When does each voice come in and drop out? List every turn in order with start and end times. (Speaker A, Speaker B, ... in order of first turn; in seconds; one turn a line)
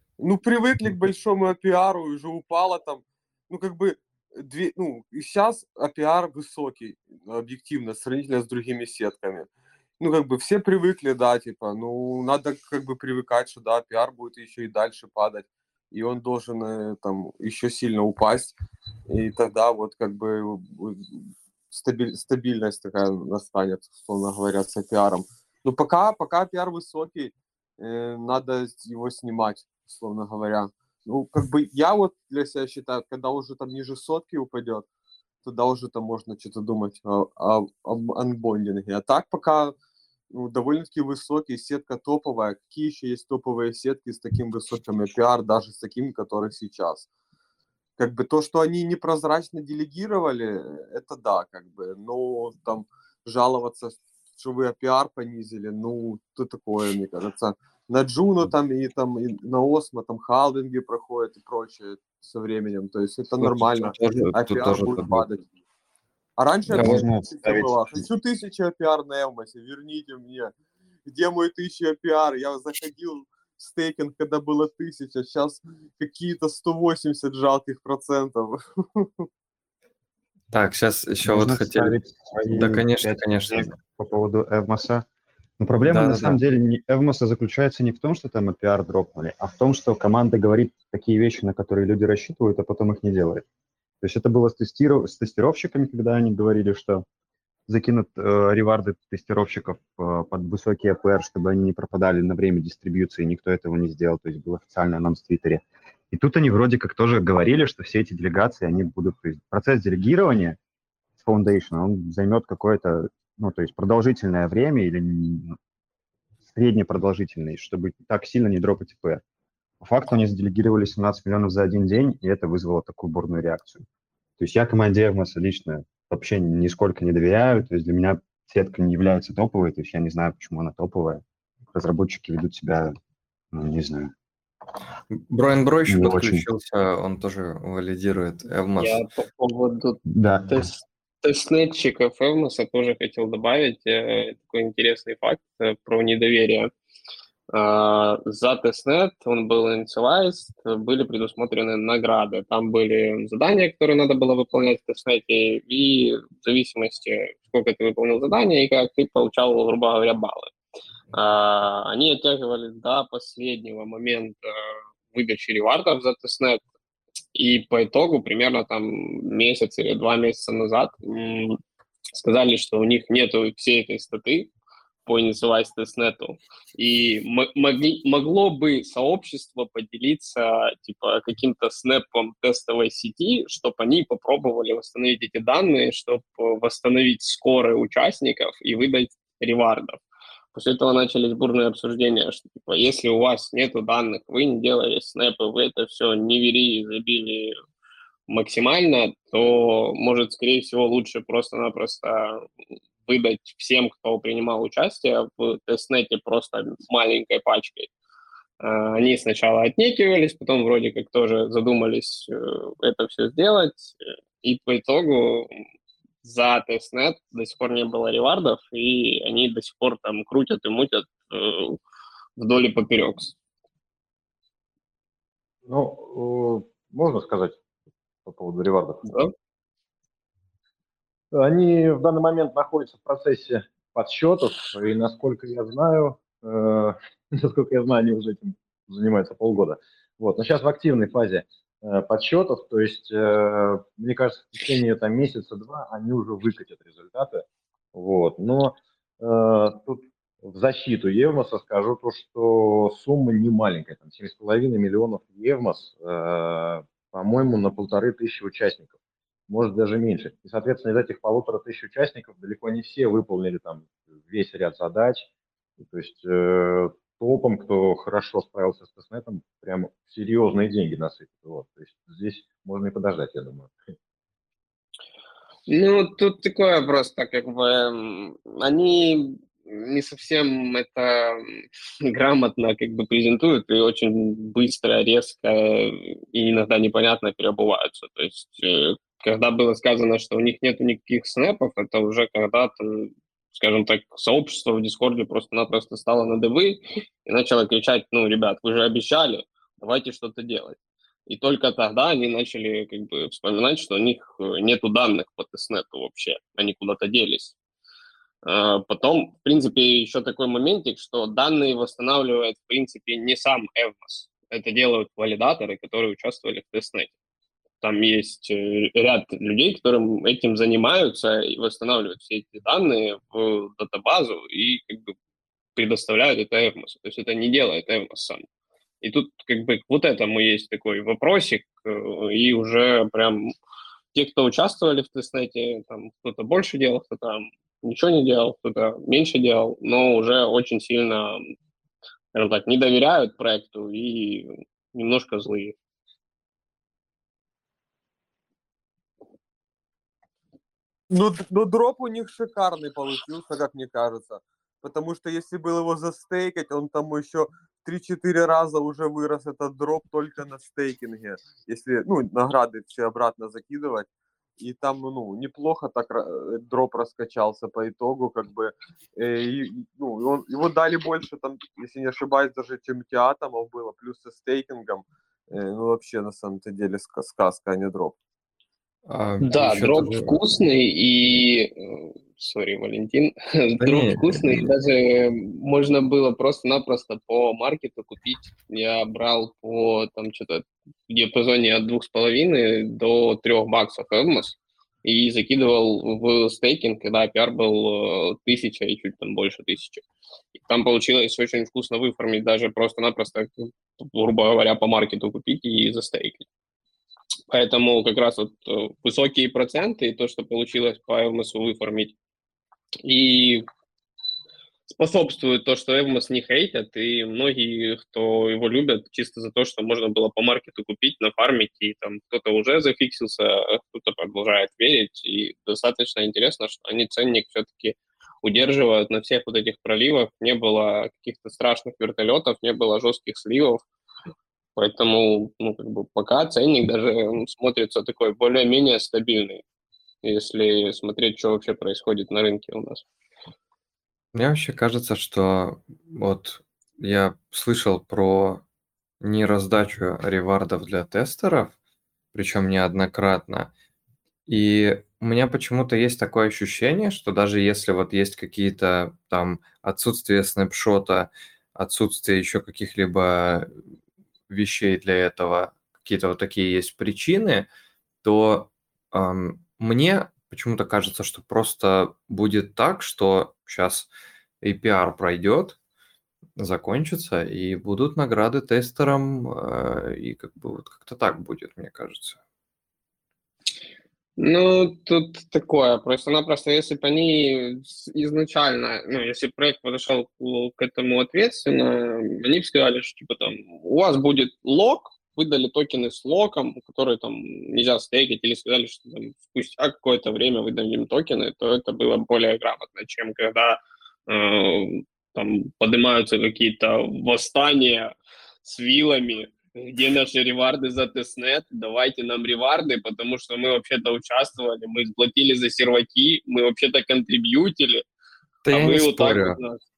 Speaker A: 0.2-18.5
Speaker A: 19.1-34.9
Speaker A: 35.4-39.7
Speaker A: 40.3-47.1
Speaker A: 48.0-65.4
Speaker B: 63.4-65.3
Speaker A: 66.4-70.5
Speaker B: 66.7-67.0
Speaker C: 66.7-67.9
Speaker A: 71.0-79.3
Speaker B: 80.5-82.0
Speaker C: 81.2-85.0
Speaker B: 82.5-83.7
Speaker C: 85.6-93.4
Speaker B: 85.8-86.4
Speaker C: 94.0-97.0
Speaker C: 97.7-110.6
Speaker C: 111.2-115.6
Speaker C: 116.5-119.2
Speaker C: 119.8-123.8
Speaker C: 124.4-132.9
Speaker C: 133.5-134.1
Speaker B: 135.1-139.0
Speaker C: 135.9-136.4
Speaker D: 138.8-146.7
Speaker C: 140.1-140.6
Speaker D: 147.5-160.5
Speaker D: 161.1-164.5
Speaker D: 165.1-166.6
Speaker D: 167.3-171.6
Speaker D: 172.1-174.5
Speaker D: 175.1-190.0
Speaker D: 190.5-197.6
Speaker D: 198.3-202.4
Speaker D: 203.1-207.9
Speaker D: 208.6-215.5
Speaker D: 216.2-221.8
Speaker D: 222.4-223.3
Speaker E: 225.6-227.6
Speaker E: 228.2-229.1
Speaker E: 231.3-258.9
Speaker E: 259.5-273.7
Speaker D: 275.7-307.6
Speaker D: 308.4-317.1
Speaker D: 317.8-325.1
Speaker D: 325.8-328.4
Speaker D: 329.0-333.5
Speaker D: 334.1-341.4
Speaker D: 342.3-345.8
Speaker A: 351.1-378.1
Speaker B: 379.1-380.4
Speaker D: 379.4-406.4
Speaker B: 383.8-384.7
Speaker D: 407.5-412.1
Speaker D: 413.0-413.6
Speaker D: 414.9-433.8
Speaker D: 434.8-439.6
Speaker D: 440.2-443.0
Speaker B: 444.3-448.6
Speaker B: 449.2-451.8
Speaker B: 452.3-453.7
Speaker B: 454.5-463.8
Speaker B: 464.5-467.7
Speaker B: 468.2-474.1
Speaker B: 474.6-475.8
Speaker B: 476.6-482.4
Speaker D: 484.4-518.0
Speaker B: 518.6-519.6
Speaker D: 518.7-519.8